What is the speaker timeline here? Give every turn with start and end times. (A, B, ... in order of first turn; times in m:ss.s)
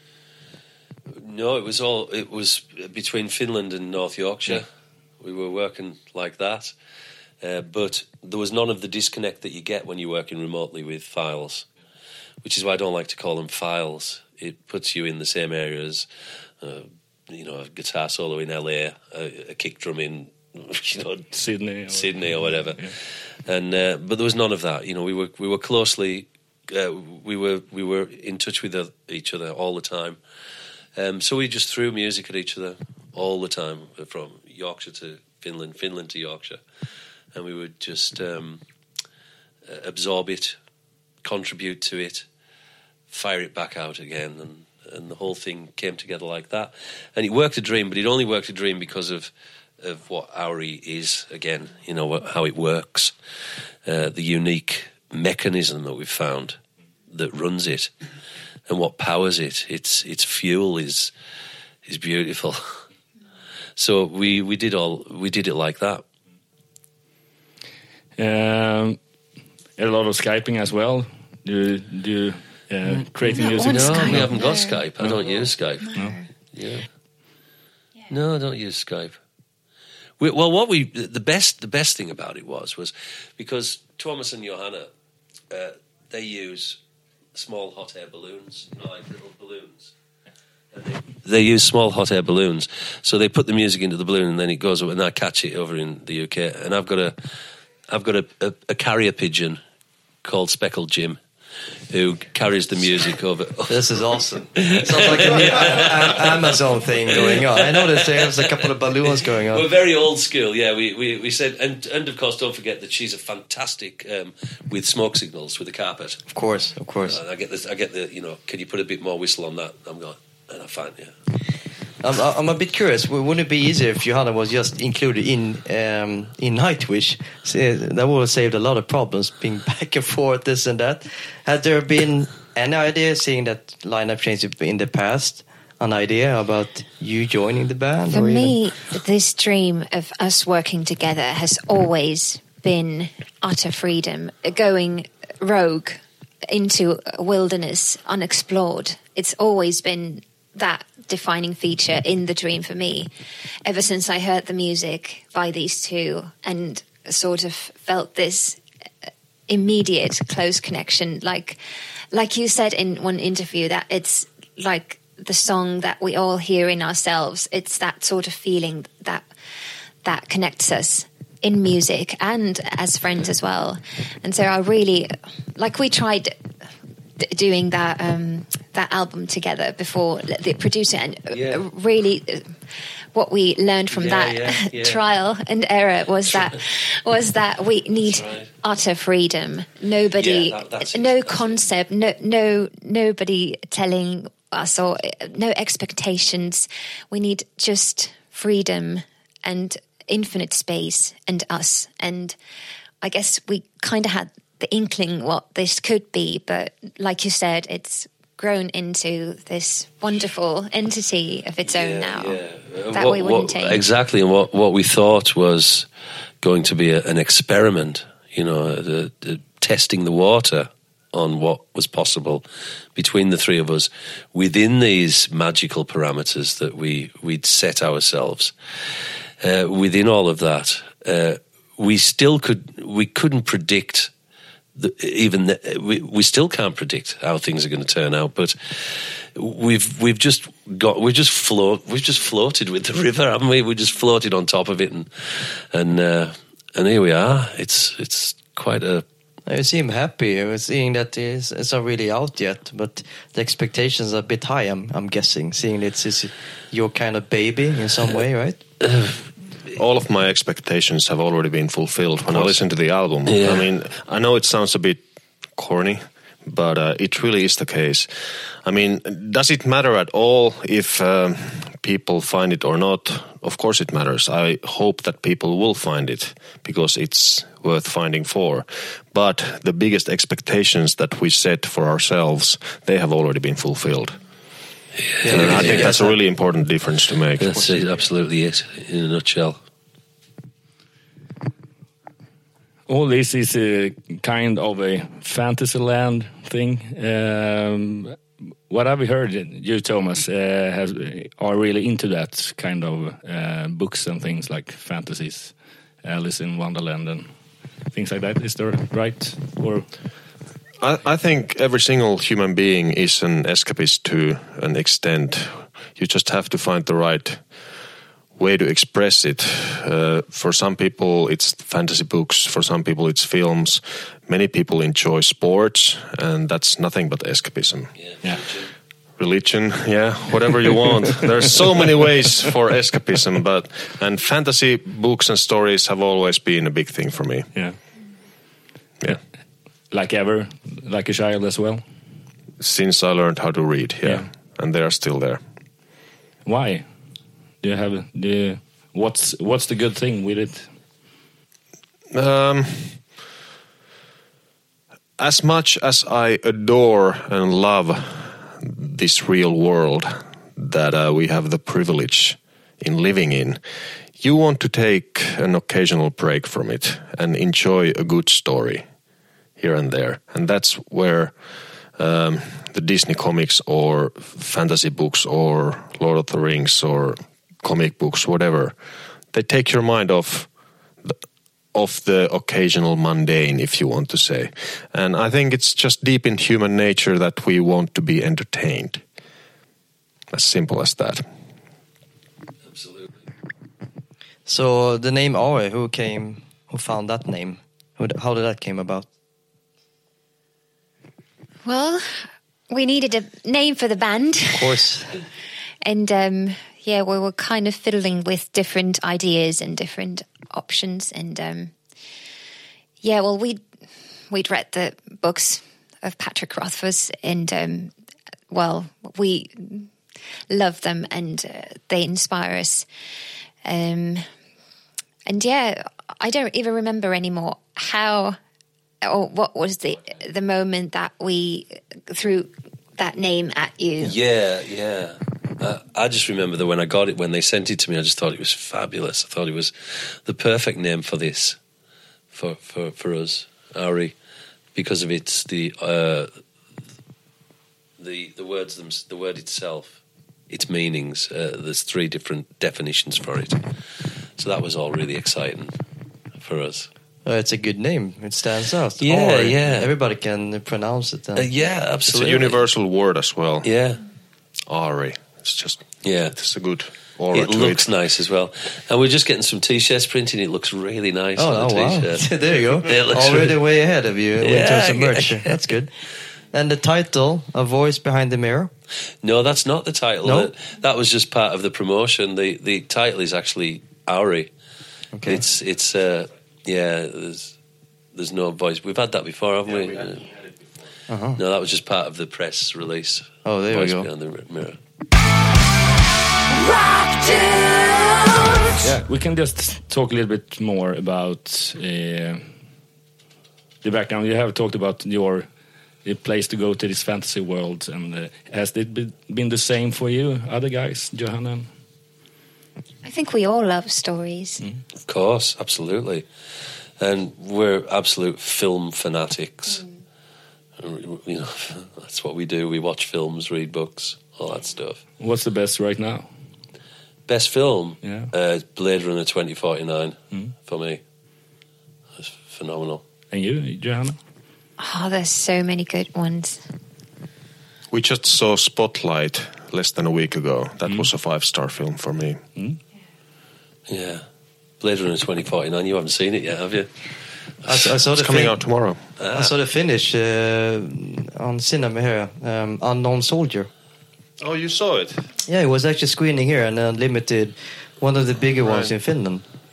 0:01.2-0:04.6 A
0:05.2-0:06.7 A
0:07.4-0:11.7 A
0:12.4-0:16.1 A
0:16.6-0:21.3 A
0:21.3-0:22.9 B
0:21.9-0:30.2 A
0:31.0-0:36.6 A
0:37.3-0:38.6 A
0:39.7-0:40.6 A
0:41.2-0:42.2 A
0:43.1-0:53.1 A
0:53.8-0:56.6 A
0:57.1-0:57.9 A
0:58.7-1:01.1 A
1:01.8-1:02.8 A
1:03.8-1:06.0 A
1:08.2-1:09.0 B
1:09.8-1:14.4 B
1:13.3-1:14.8 C
1:13.5-1:16.0 A
1:15.0-1:15.4 B
1:16.5-1:16.9 A
1:18.1-1:19.2 A
1:20.2-1:24.9 A
1:25.5-1:26.8 A
1:27.3-1:29.9 A
1:30.7-1:37.2 A
1:37.9-1:39.6 A
1:40.2-1:41.2 A
1:41.9-1:43.9 A
1:43.7-1:49.6 D
1:44.6-1:48.7 A
1:49.5-1:56.3 A
1:56.3-1:57.2 D
1:57.0-2:01.2 A
2:02.0-2:18.6 D
2:18.1-2:33.1 C
2:33.6-2:38.6 C
2:39.5-2:41.6 C
2:42.1-2:49.3 C
2:50.0-2:56.3 C
2:57.2-3:02.5 C
3:01.3-3:01.6 A
3:03.1-3:22.4 C
3:03.9-3:05.0 A
3:08.1-3:08.5 A
3:10.2-3:11.6 A
3:23.0-3:32.4 C
3:31.6-3:35.9 A
3:32.9-3:33.8 C
3:36.4-3:42.4 A
3:42.9-3:48.5 A
3:49.4-3:54.1 A
3:54.8-4:09.0 A
4:09.5-4:18.6 D
4:18.8-4:19.2 A
4:19.7-4:25.0 E
4:22.3-4:22.6 A
4:23.3-4:23.6 A
4:25.5-4:28.1 E
4:28.6-4:44.2 E
4:45.0-4:45.9 A
4:45.2-4:46.2 D
4:45.3-4:47.5 E
4:47.4-4:49.6 A
4:47.5-4:47.8 D
4:52.9-5:07.3 B
5:07.9-5:09.9 B
5:10.8-5:17.4 E
5:18.4-5:27.9 E
5:28.0-5:28.7 A
5:29.2-5:37.5 E
5:39.9-5:41.8 B
5:42.6-5:45.4 E
5:46.4-5:46.8 B
5:47.6-5:50.7 B
5:52.1-5:53.1 E
5:55.2-6:03.6 E
6:04.2-6:08.8 E
6:09.6-6:11.3 E
6:12.0-6:18.8 E
6:19.3-6:20.5 E
6:21.7-6:29.0 E
6:30.3-6:31.2 E
6:32.7-6:33.1 A
6:34.4-6:39.1 D
6:41.6-6:44.8 C
6:44.5-6:45.2 D
6:45.8-6:51.7 C
6:53.0-6:53.6 C
6:54.3-6:57.9 C
6:58.5-6:59.9 C
7:00.5-7:02.9 C
7:03.6-7:04.2 C
7:05.2-7:08.4 C
7:09.0-7:14.1 C
7:14.0-7:21.6 A
7:22.3-7:24.1 A
7:24.7-7:26.3 A
7:28.0-7:30.0 A
7:30.5-7:33.7 A
7:34.4-7:35.7 A
7:36.4-7:36.9 A
7:37.2-7:41.5 D
7:39.0-7:39.9 A
7:41.4-7:42.6 A
7:42.1-7:43.7 E
7:43.6-7:44.0 A
7:44.7-7:47.9 E
7:46.0-7:46.4 A
7:47.3-7:52.3 A
7:51.4-7:55.9 D
7:52.8-7:53.6 A
7:54.4-7:55.7 A
7:56.5-7:58.7 D
7:59.2-8:04.5 A
8:00.2-8:00.5 D
8:05.1-8:05.4 D
8:05.2-8:07.6 A
8:08.1-8:10.5 A
8:11.1-8:11.4 D
8:11.4-8:14.8 A
8:13.4-8:14.1 D
8:18.8-8:22.4 B
8:23.8-8:25.4 B
8:26.0-8:31.7 B
8:33.0-8:34.6 C
8:35.1-8:36.2 A
8:37.0-8:39.8 A
8:40.8-8:45.0 A
8:45.2-8:46.3 B
8:47.3-8:51.0 A
8:48.0-8:48.3 B
8:52.2-8:53.0 A
8:53.3-8:54.2 B
8:54.8-8:56.6 C
8:57.9-9:02.4 E
9:03.9-9:04.2 A
9:04.8-9:06.9 A
9:07.6-9:08.6 D
9:08.1-9:09.0 E
9:09.2-9:09.5 A
9:09.3-9:13.7 D
9:14.4-9:15.3 E
9:15.5-9:19.4 D
9:18.6-9:18.9 E